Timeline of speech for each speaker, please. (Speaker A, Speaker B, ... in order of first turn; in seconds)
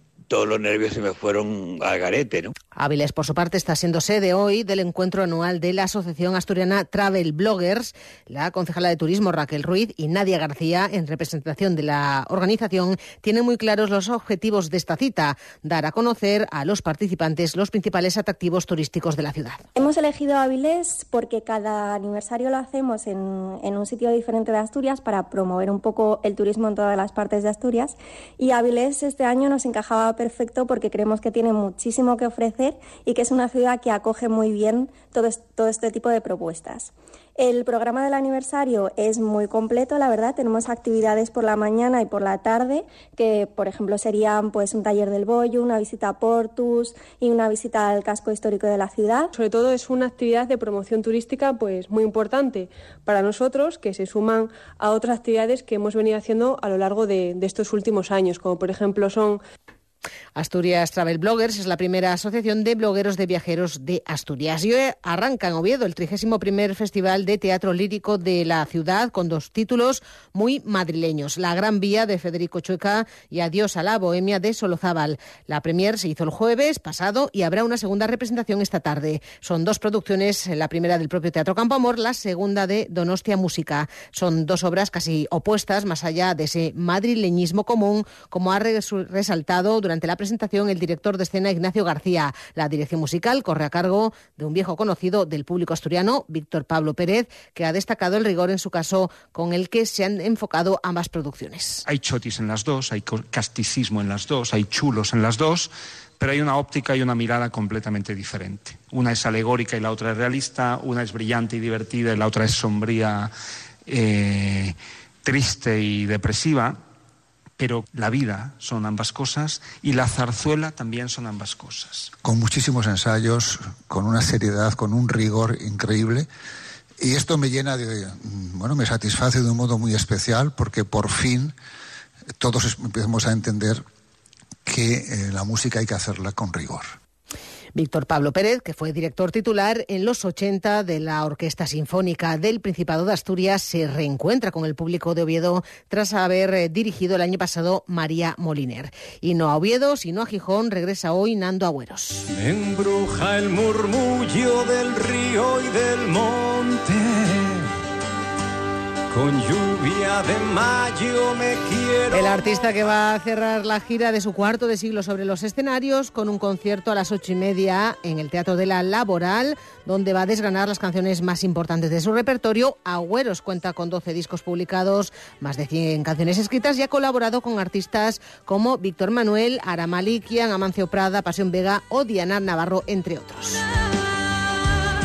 Speaker A: 0.3-2.5
Speaker B: 2.8-19.6, 60.4-101.8, 137.8-152.3, 162.1-183.6
Speaker C: 19.8-49.3
Speaker D: 49.3-59.4
Speaker E: 101.9-113.3, 113.9-116.8, 117.6-122.1
Speaker F: 122.2-126.3, 127.0-131.6, 132.4-133.8, 134.7-137.0
Speaker G: 152.3-157.7, 159.1-162.7